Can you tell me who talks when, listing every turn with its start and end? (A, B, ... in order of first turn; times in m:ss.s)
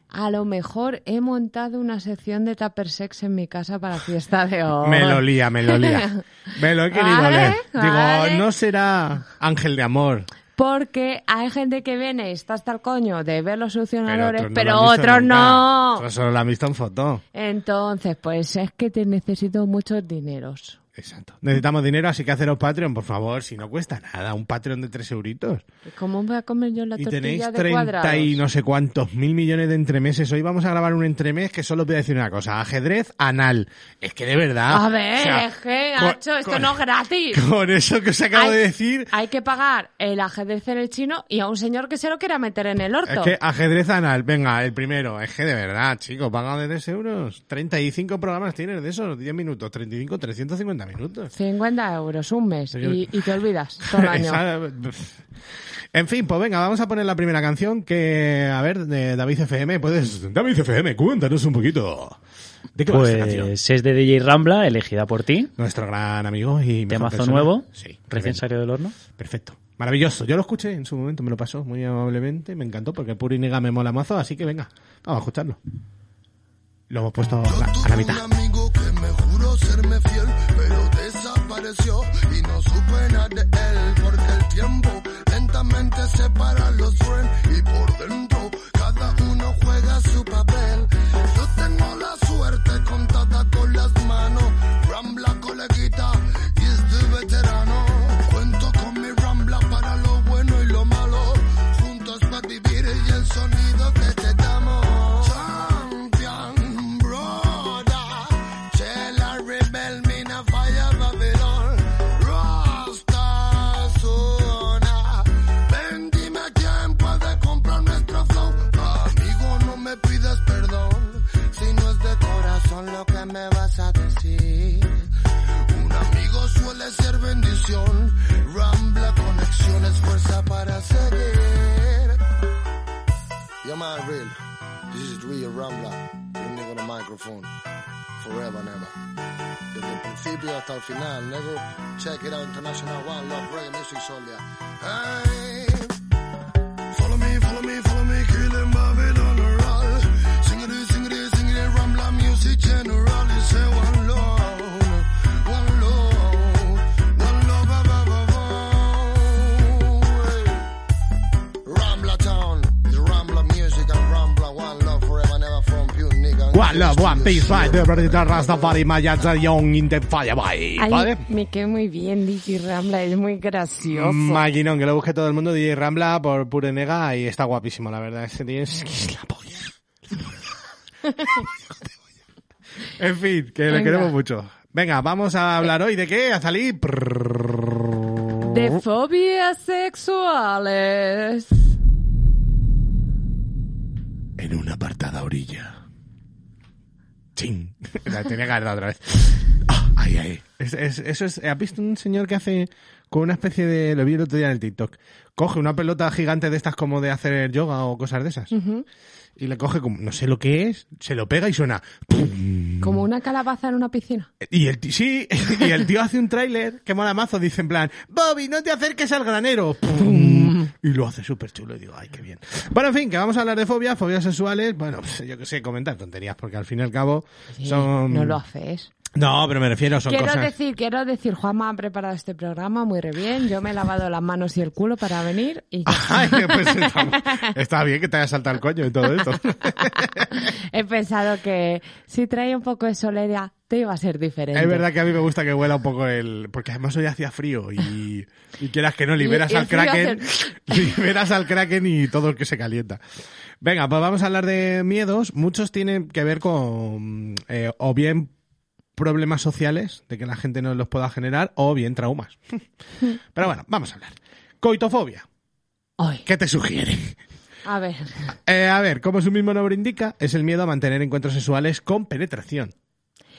0:00.1-0:06.2 A
0:04.8-0:10.3 B
0:06.9-0:08.5 A
0:10.6-0:16.1 A
0:14.1-0:17.2 B
0:17.3-0:20.8 A
0:21.0-0:25.6 B
0:25.9-0:28.4 A
0:27.0-0:36.8 B
0:34.7-0:37.4 A
0:37.3-0:39.1 B
0:38.3-0:43.4 A
0:43.1-0:51.3 B
0:51.3-0:54.4 A
0:52.7-0:53.2 B
0:53.8-0:55.2 B
0:55.9-1:02.2 B
1:02.8-1:03.5 B
1:02.9-1:05.5 C
1:05.6-1:08.5 B
1:06.9-1:09.0 C
1:09.0-1:15.6 B
1:16.9-1:18.2 B
1:17.4-2:05.1 D
2:05.7-2:12.2 D
2:13.6-2:14.4 D
2:14.9-2:17.5 D
2:18.2-2:19.0 D
2:19.7-2:26.0 D
2:26.9-2:40.7 D
2:41.6-2:48.8 D
2:46.5-2:51.2 B
2:50.8-2:54.4 A
2:53.9-3:00.3 B
3:01.3-3:01.5 B
3:03.0-3:08.8 B
3:03.7-3:04.1 A
3:08.4-3:11.6 A
3:14.4-3:15.8 B
3:17.4-3:28.5 B
3:28.5-3:28.8 A
3:29.4-3:33.0 B
3:32.8-3:34.3 A
3:34.4-3:48.4 B
3:39.9-3:40.7 A
3:47.6-3:48.9 A
3:49.2-3:50.5 B
3:50.1-3:57.5 A
3:55.9-4:00.3 B
3:59.7-4:04.9 A
4:04.5-4:13.0 B
4:09.2-4:11.0 A
4:13.6-4:18.3 B
4:19.0-4:25.2 B
4:26.0-4:26.2 A
4:26.3-4:27.2 B
4:27.6-4:28.3 A
4:28.3-4:32.7 B